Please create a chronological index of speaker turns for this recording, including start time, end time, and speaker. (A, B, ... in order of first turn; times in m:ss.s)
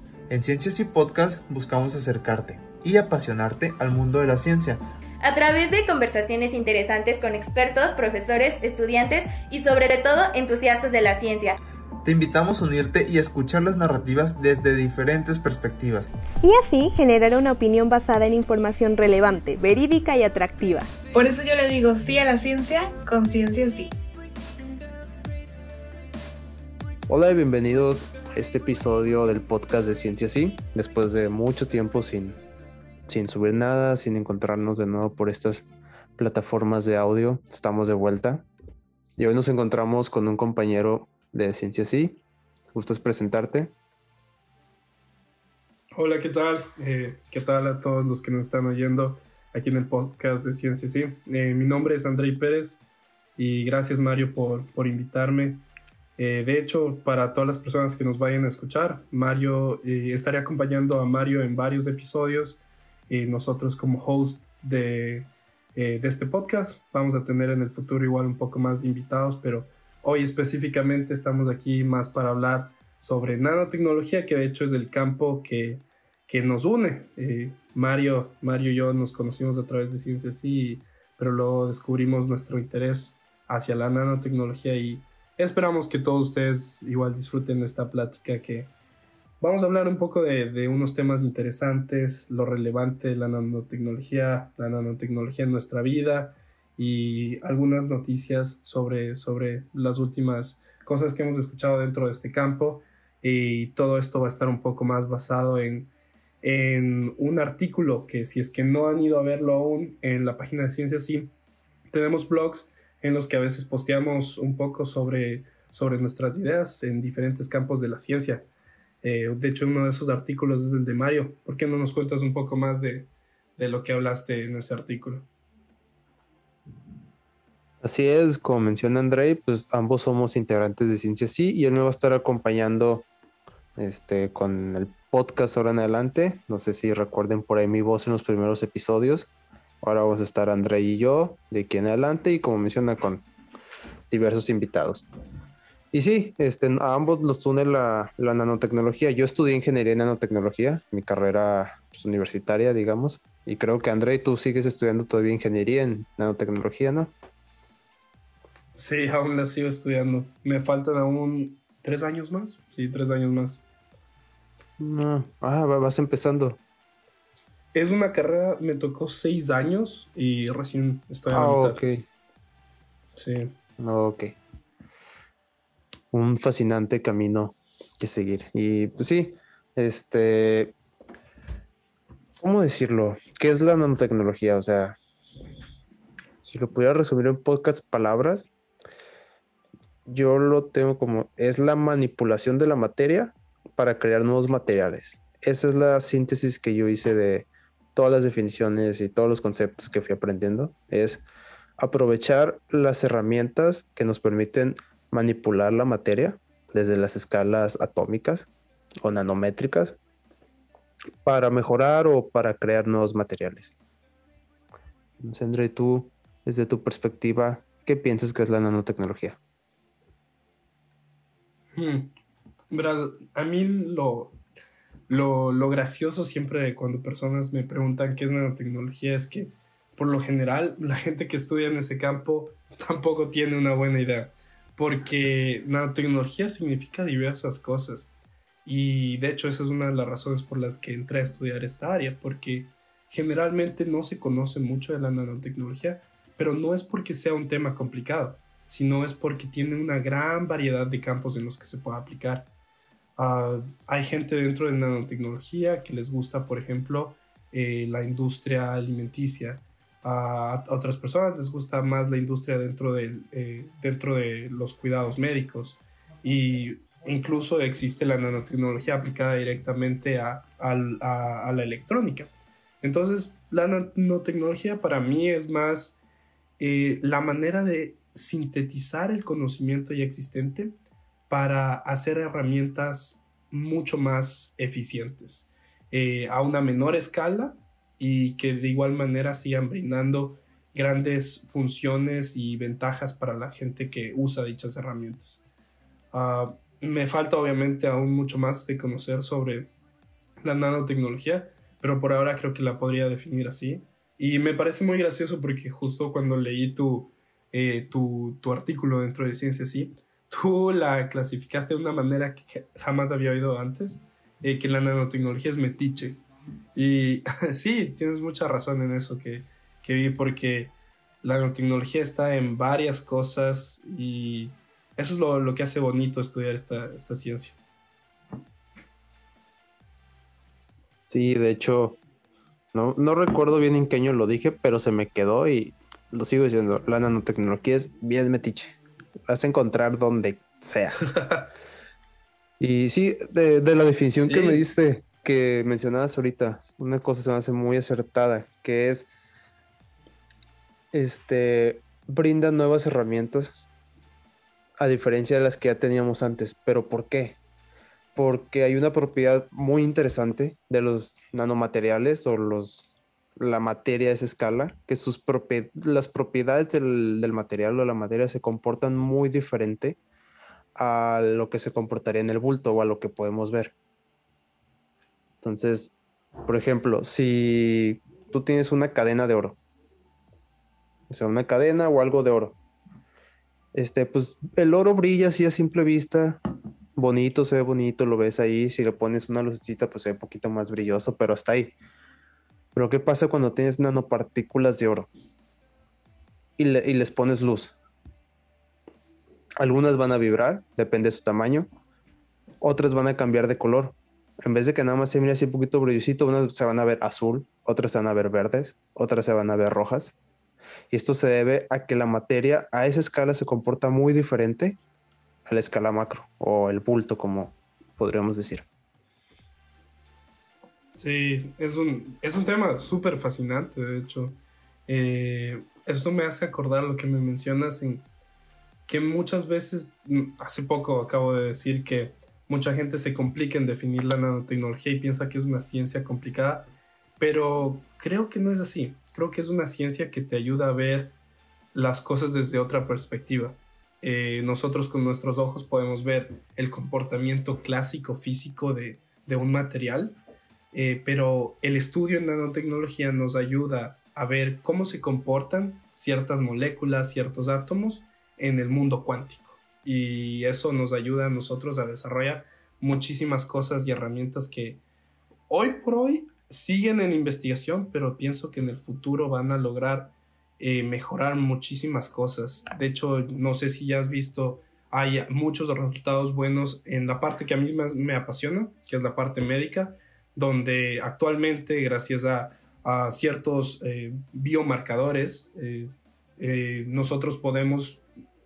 0:00.3-0:04.8 A
0:05.2-0:11.6 B
0:12.0-0:16.1 A
0:16.4-0:20.9 C
0:21.1-0:24.0 D
0:27.1-0:32.4 E
0:33.1-0:35.7 E
0:36.2-0:38.4 E
0:39.2-0:42.2 E
0:42.7-0:43.7 E
0:46.0-0:55.6 F
0:56.2-1:28.7 F
1:29.4-1:45.9 F
1:46.4-1:51.3 F
1:51.9-1:58.5 F
1:59.0-2:05.3 F
2:07.8-2:13.1 E
2:13.8-2:19.3 E
2:19.8-2:23.2 E
2:24.1-2:25.1 E
2:25.9-2:37.1 E
2:38.8-2:43.6 F
2:44.8-2:46.6 E
2:47.7-2:51.8 F
2:51.3-2:52.1 E
2:53.2-2:53.5 F
2:53.8-2:54.4 E
2:56.1-3:00.7 E
3:02.4-3:05.0 E
3:06.4-3:08.5 E
3:10.1-3:21.2 E
3:21.8-3:28.5 E
3:29.0-3:30.0 E
3:31.2-3:33.7 E
3:35.2-3:39.4 E
3:41.8-3:42.1 F
3:42.7-3:44.4 F
3:45.1-3:58.1 F
3:58.6-4:12.5 F
4:13.2-4:36.0 F
4:36.6-4:40.8 F
4:41.3-4:55.4 F
4:56.1-4:59.7 F
5:00.4-5:16.2 F
5:16.8-5:27.6 F
5:31.0-5:32.0 E
5:32.7-5:38.8 E
5:39.3-5:41.1 E
5:41.1-5:41.5 F
5:42.6-5:49.1 E
5:44.2-5:44.7 F
5:50.9-5:53.7 E
5:54.8-5:57.4 E
5:58.2-6:10.0 E
6:10.8-6:13.7 E
6:15.4-6:19.6 E
6:21.1-6:22.6 E
6:23.7-6:26.4 E
6:27.0-6:31.7 E
6:32.8-6:35.1 E
6:36.6-6:37.8 E
6:39.6-6:41.7 E
6:42.6-6:50.2 E
6:50.9-6:54.8 E
6:55.5-6:58.7 E
7:01.0-7:08.1 F
7:08.9-7:21.1 F
7:21.7-7:30.2 F
7:30.7-7:44.8 F
7:45.5-8:08.0 F